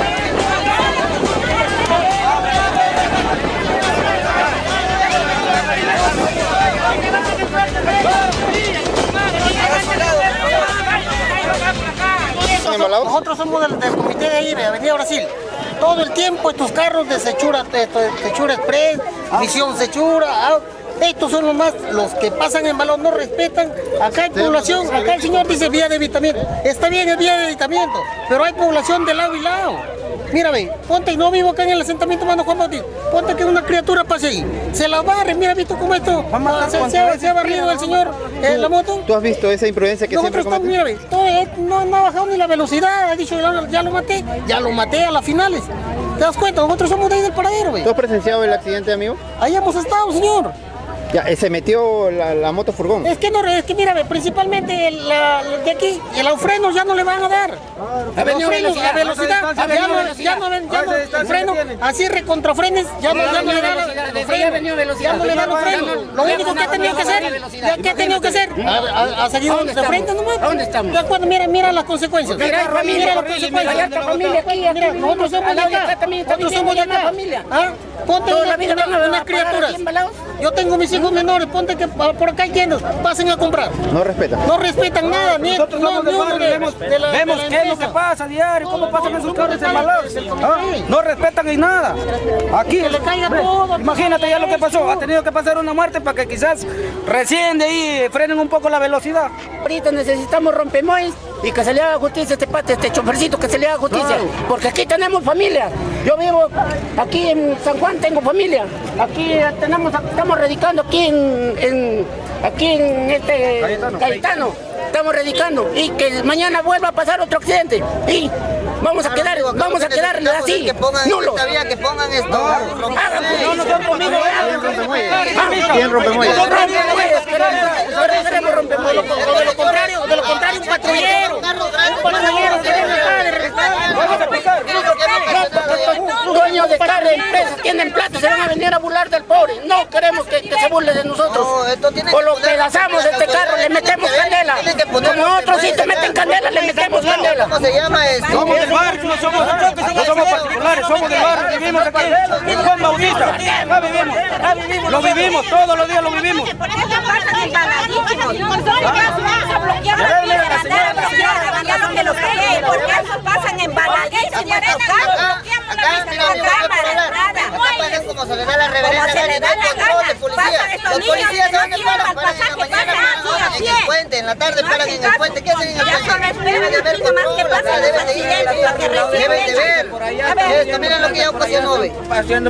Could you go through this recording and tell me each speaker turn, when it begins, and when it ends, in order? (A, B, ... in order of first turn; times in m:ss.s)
0:12.4-0:39.1 A
0:12.5-0:13.2 B
0:24.3-0:25.5 B
0:36.3-0:37.6 C
0:38.4-0:40.8 B
0:40.1-0:47.9 A
0:47.8-0:49.2 B
0:49.4-0:50.6 A
0:51.1-0:53.1 B
0:53.0-0:57.6 A
0:58.2-1:00.2 D
0:58.2-1:19.8 A
0:58.9-1:01.8 C
1:03.1-1:08.8 D
1:09.4-1:11.0 D
1:12.3-1:17.5 D
1:12.5-1:13.0 C
1:18.3-1:20.2 D
1:20.4-1:23.8 A
1:23.9-1:24.4 B
1:24.4-1:28.0 A
1:25.4-1:32.0 C
1:28.7-1:30.9 A
1:32.5-1:39.3 C
1:32.7-1:35.0 A
1:39.6-2:01.4 D
1:59.0-2:03.8 E
2:02.3-2:02.7 C
2:02.4-2:04.6 D
2:03.5-2:04.4 C
2:04.4-2:06.4 B
2:05.2-2:11.4 D
2:05.4-2:05.8 C
2:06.4-2:07.9 C
2:09.2-2:16.4 E
2:10.6-2:11.2 A
2:12.0-2:14.0 D
2:14.0-2:15.1 C
2:15.3-2:21.5 D
2:21.3-2:30.5 E
2:22.1-2:27.5 D
2:28.3-2:36.5 C
2:32.4-2:34.0 D
2:36.4-2:48.0 F
2:40.0-2:41.9 C
2:44.3-3:02.0 E
2:48.9-2:53.9 F
2:55.8-3:00.6 F